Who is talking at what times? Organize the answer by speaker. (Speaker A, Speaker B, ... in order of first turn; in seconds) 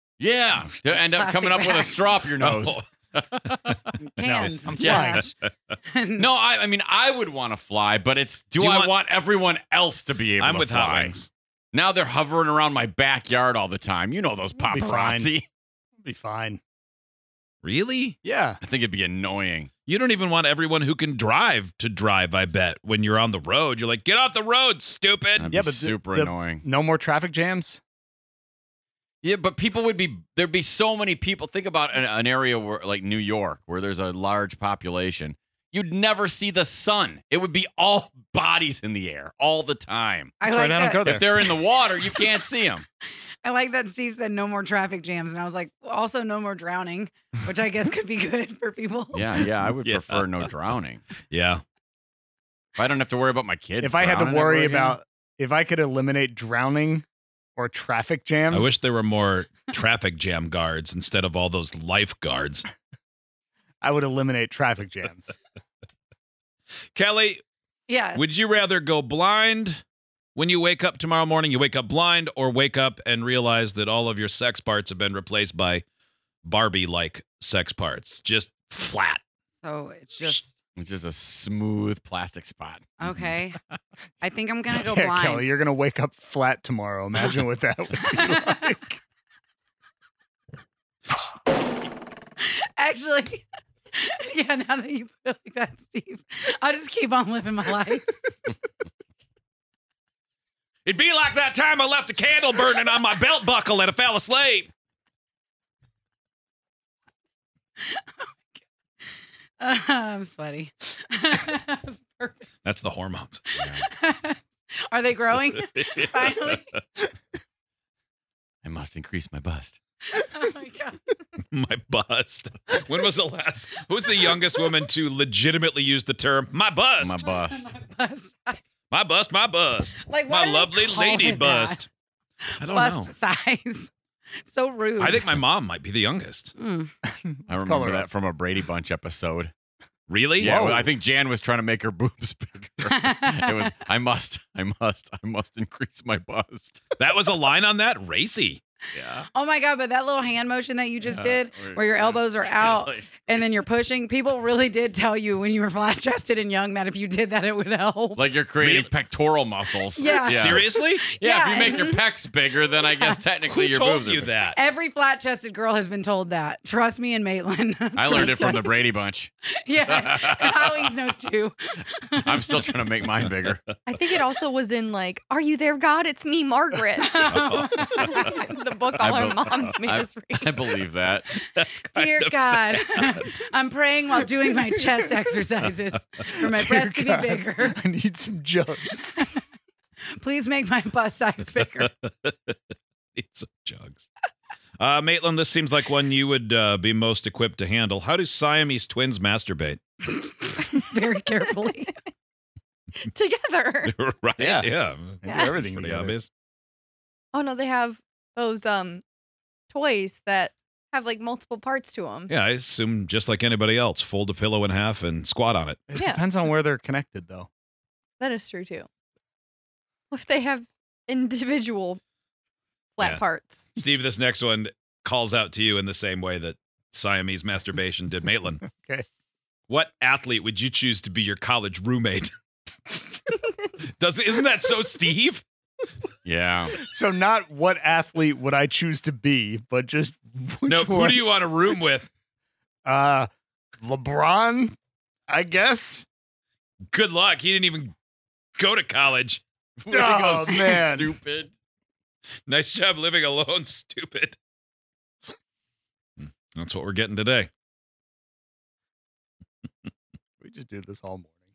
Speaker A: 0.2-3.7, 6.2-15.5, 18.6-19.7, 25.4-26.6, 29.2-40.3, 41.1-42.9, 49.1-51.0, 52.8-55.0, 80.8-82.9, 118.6-119.8, 127.0-127.7, 137.5-139.5, 140.5-146.8, 148.9-149.3, 151.1-153.2, 158.2-160.7, 161.2-164.3, 168.0-169.3, 169.9-170.9, 172.3-173.6, 179.0-181.3, 236.2-236.7, 249.8-251.5
Speaker B: 0.7-2.3, 3.9-5.3, 5.9-6.4, 40.4-42.5, 43.1-49.5, 67.9-68.3, 79.6-80.6, 83.0-83.6, 84.2-85.5, 88.0-88.8, 92.4-98.1, 107.8-112.5, 113.5-116.8, 120.0-121.2, 124.2-124.5, 127.0-128.6, 130.1-131.9, 132.5-135.3, 136.6-136.9, 142.8-143.9, 149.3-158.4, 159.9-162.1, 162.6-163.4, 164.4-168.7, 169.5-173.0, 177.0-178.3, 179.5-179.7, 181.3-187.8, 190.1-191.9, 200.1-201.9
Speaker C: 2.4-2.8, 5.0-5.7, 8.6-8.9, 10.4-11.3, 17.6-18.2, 19.9-25.5, 49.8-50.3, 51.3-51.6, 58.5-62.7, 67.0-67.4, 68.2-69.8, 70.3-75.8, 76.4-79.2, 100.8-104.7, 112.7-113.5, 115.8-116.6, 121.5-127.2, 128.9-131.9, 132.6-133.1, 135.0-136.5, 140.1-140.8, 147.0-148.6, 158.6-158.9, 160.2-161.0, 163.5-164.6, 177.3-178.4, 181.4-183.2, 191.7-192.6, 193.2-194.1, 194.8-199.8, 203.9-206.3, 212.3-215.8, 223.8-228.6, 229.7-232.3, 233.9-235.4, 240.7-242.1, 246.9-247.9, 248.6-249.4, 252.5-254.4, 256.2-257.5
Speaker D: 4.2-5.3, 14.7-15.3, 16.0-16.6, 18.2-18.6, 25.5-27.8, 40.4-41.3, 53.8-57.0, 57.6-58.7, 63.8-65.3, 84.7-89.0, 137.1-138.1, 140.4-140.9, 186.4-189.2, 204.4-204.7, 205.2-206.2, 215.9-217.5, 228.8-229.1, 236.8-241.2, 242.8-243.3, 243.8-244.8, 245.3-246.1, 249.9-251.1, 260.4-261.4
Speaker E: 168.1-168.6, 173.8-180.8, 201.5-201.9, 203.0-203.9, 205.3-205.5, 207.3-209.0, 209.7-212.3, 215.9-216.2, 218.2-218.9, 220.1-222.0, 223.0-223.6